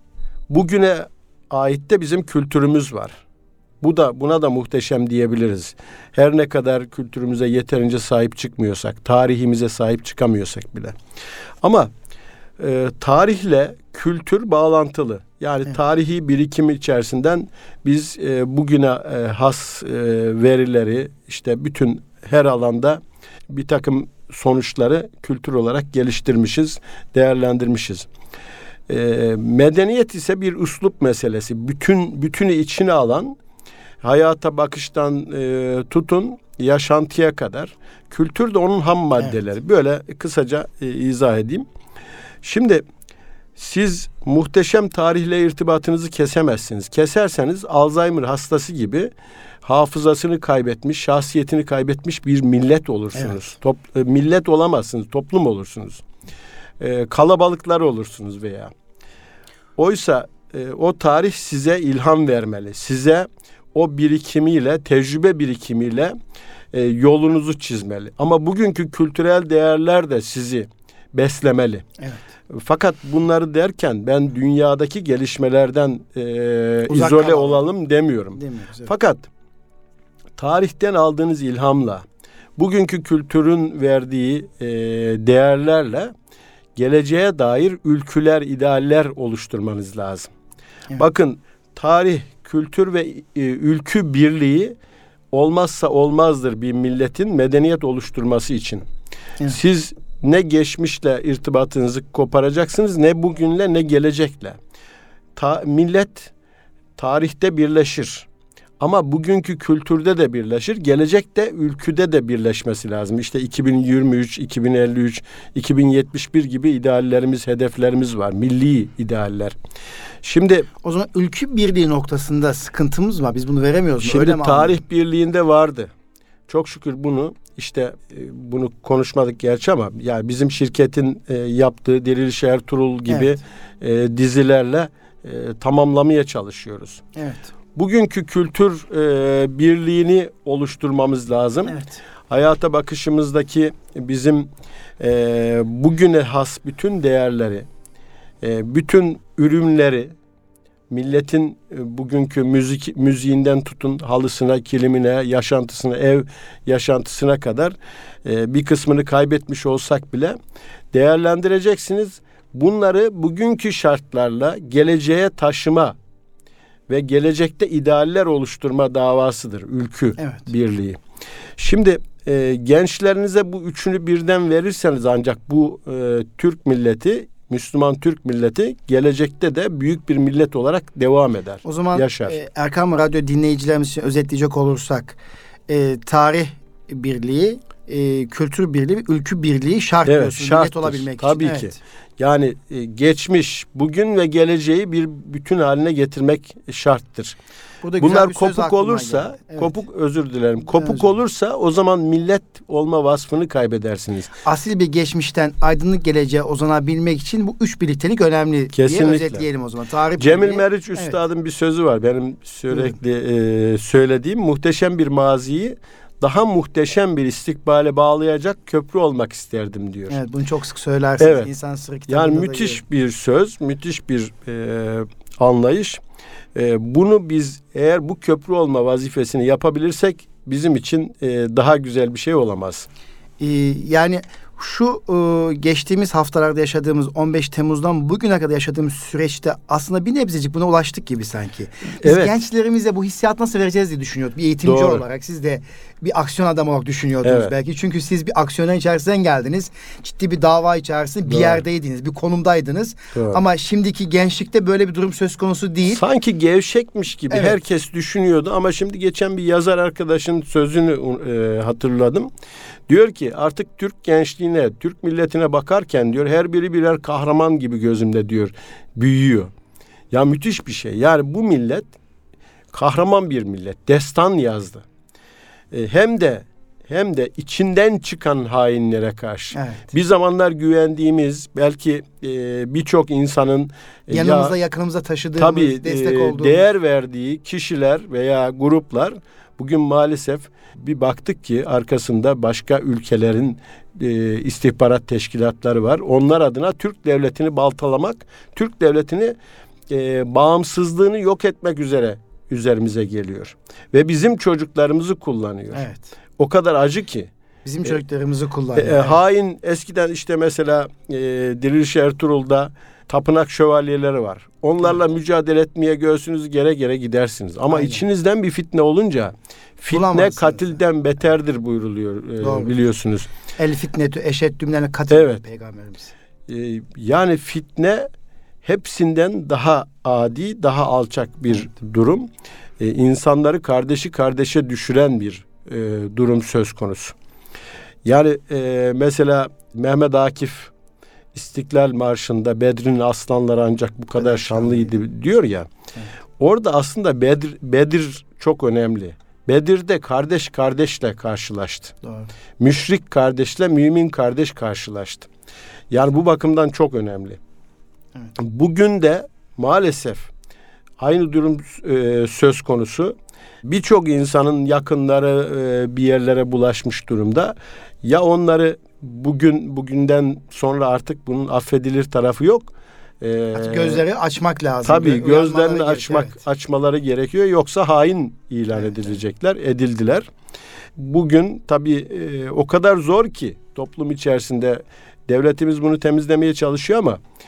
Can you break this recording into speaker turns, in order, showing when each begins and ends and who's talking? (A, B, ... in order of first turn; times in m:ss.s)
0:00.5-0:03.2 A
0:03.8-0:11.0 A
0:11.6-0:11.9 A
0:12.6-0:28.1 A
0:28.9-0:33.4 A
0:34.0-0:41.6 A
0:42.4-0:42.8 A
0:43.6-0:49.1 A
0:49.6-0:56.0 A
0:56.8-0:58.7 A
0:59.8-1:06.1 A
1:06.7-1:11.8 A
1:12.5-1:19.3 A
1:16.9-1:17.6 B
1:18.4-1:18.9 B
1:20.4-1:22.0 A
1:22.6-1:26.1 A
1:26.8-1:30.3 A
1:31.0-1:34.8 A
1:35.3-1:38.8 A
1:39.4-1:44.6 A
1:45.4-1:46.3 A
1:47.0-1:48.3 A
1:48.8-1:59.6 A
2:00.2-2:00.7 A
2:00.8-2:04.8 B
2:04.0-2:05.9 A
2:06.5-2:17.0 A
2:13.1-2:13.4 B
2:17.2-2:17.4 B
2:17.8-2:24.5 A
2:21.7-2:22.0 B
2:25.0-2:27.6 A
2:28.4-2:30.1 A
2:30.9-2:40.4 A
2:40.9-2:46.0 A
2:46.9-2:51.0 A
2:50.2-2:50.4 B
2:51.6-3:02.4 A
3:01.6-3:05.2 B
3:05.7-3:11.8 B
3:10.0-3:17.4 A
3:17.8-3:19.7 B
3:18.0-3:24.3 A
3:20.7-3:21.0 B
3:24.4-3:31.2 B
3:28.7-3:29.4 A
3:30.2-3:40.2 A
3:40.1-3:42.8 B
3:41.2-3:41.5 A
3:42.1-3:46.0 A
3:46.5-3:52.9 A
3:53.4-4:16.0 B
4:02.0-4:02.4 A
4:04.6-4:05.0 A
4:07.2-4:07.5 A
4:11.3-4:11.6 A
4:13.1-4:13.4 A
4:15.9-4:22.3 A
4:17.3-4:17.6 B
4:22.9-4:29.5 A
4:30.1-4:31.9 A
4:32.7-4:34.8 A
4:35.7-4:44.5 A
4:39.5-4:39.9 B
4:44.1-4:46.6 B
4:45.4-4:59.4 A
4:59.9-5:05.8 A
5:05.7-5:06.1 B
5:06.4-5:07.3 A
5:07.6-5:09.2 B
5:08.7-5:23.3 A
5:17.7-5:18.0 B
5:19.9-5:20.8 B
5:22.4-5:22.8 B
5:23.6-5:26.1 B
5:25.1-5:25.4 A
5:26.5-5:28.1 A
5:28.6-5:37.1 A
5:38.0-5:40.7 A
5:41.3-5:45.7 A
5:44.2-5:44.9 B
5:46.4-5:51.9 A
5:52.0-5:52.3 B
5:52.6-5:55.3 A
5:55.9-5:57.4 A
5:58.4-6:00.3 A
6:01.0-6:14.0 A
6:13.5-6:16.4 B
6:14.8-6:20.3 A
6:21.0-6:27.2 A